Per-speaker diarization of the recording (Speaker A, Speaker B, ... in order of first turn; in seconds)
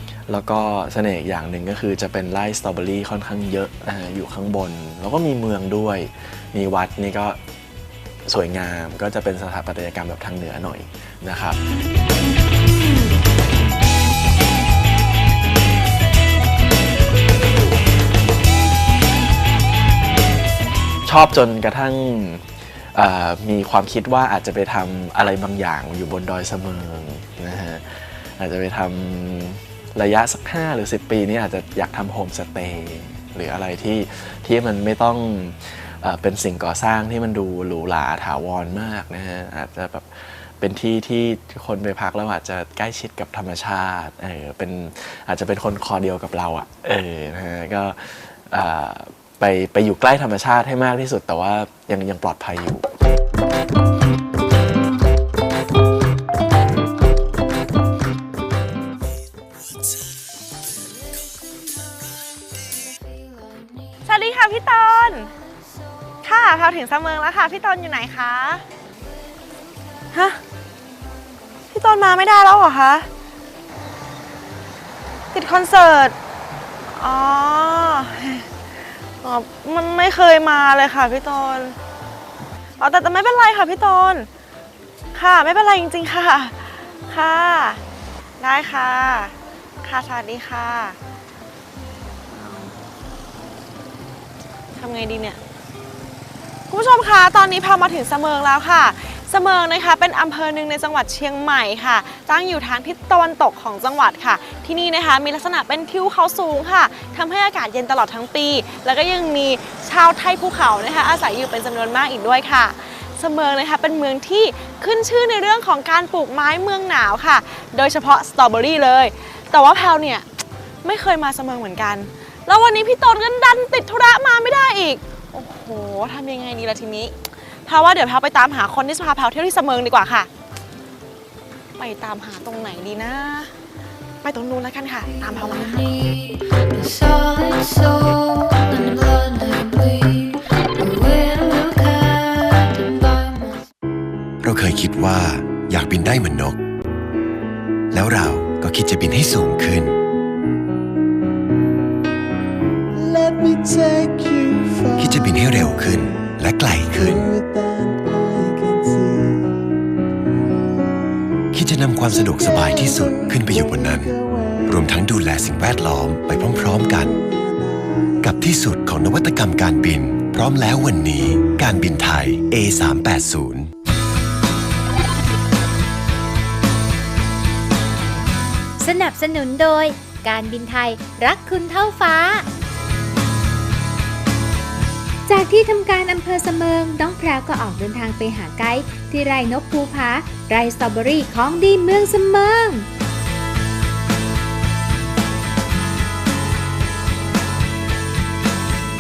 Speaker A: 0.3-7.4, 8.3-11.6, 21.1-52.9
Speaker B: 64.0-65.3, 66.2-68.6, 70.1-70.4, 71.7-73.1, 75.3-76.2, 76.9-78.5, 79.2-81.8, 82.8-84.3, 85.2-87.8, 88.4-91.0, 92.3-92.8, 94.8-95.4, 96.7-120.3, 120.8-127.1, 127.7-130.3, 131.8-133.6, 134.2-135.8
Speaker C: 135.0-143.7
Speaker D: 144.4-146.6, 147.9-150.0, 155.0-157.3, 161.5-164.2, 164.7-167.2, 168.2-173.7
Speaker E: 152.9-159.6, 162.3-164.9, 166.7-168.2
Speaker F: 178.8-182.4, 185.3-192.9